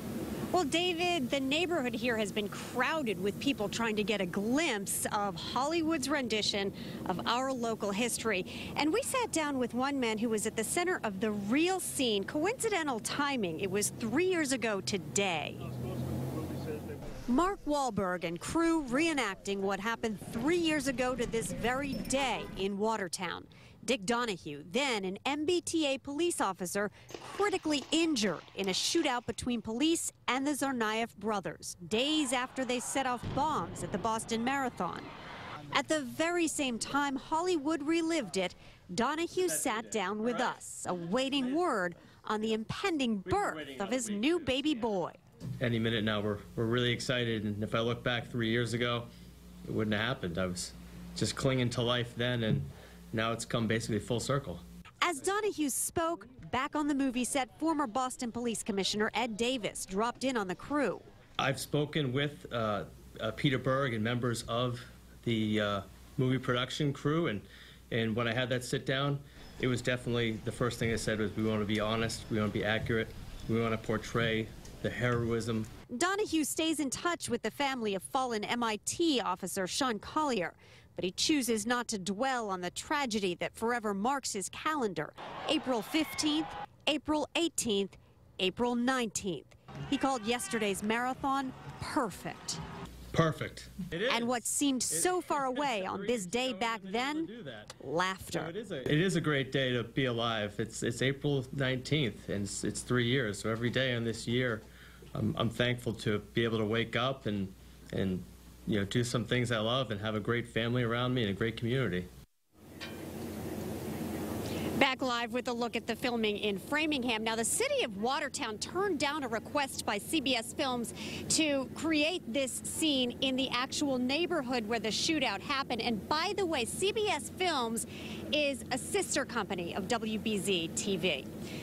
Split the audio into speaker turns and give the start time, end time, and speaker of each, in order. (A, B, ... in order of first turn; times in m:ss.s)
0:00.5-0:15.7 A
0:17.3-0:35.1 A
0:35.7-0:45.2 A
0:39.4-0:40.6 B
0:43.3-0:44.7 B
0:45.6-0:49.1 B
0:49.7-0:54.6 B
0:55.0-1:01.0 A
1:01.4-1:15.7 B
1:15.9-1:32.6 A
1:33.1-1:37.8 B
1:34.1-1:37.3 A
1:37.8-1:38.5 A
1:38.3-1:52.1 B
1:54.8-2:11.3 A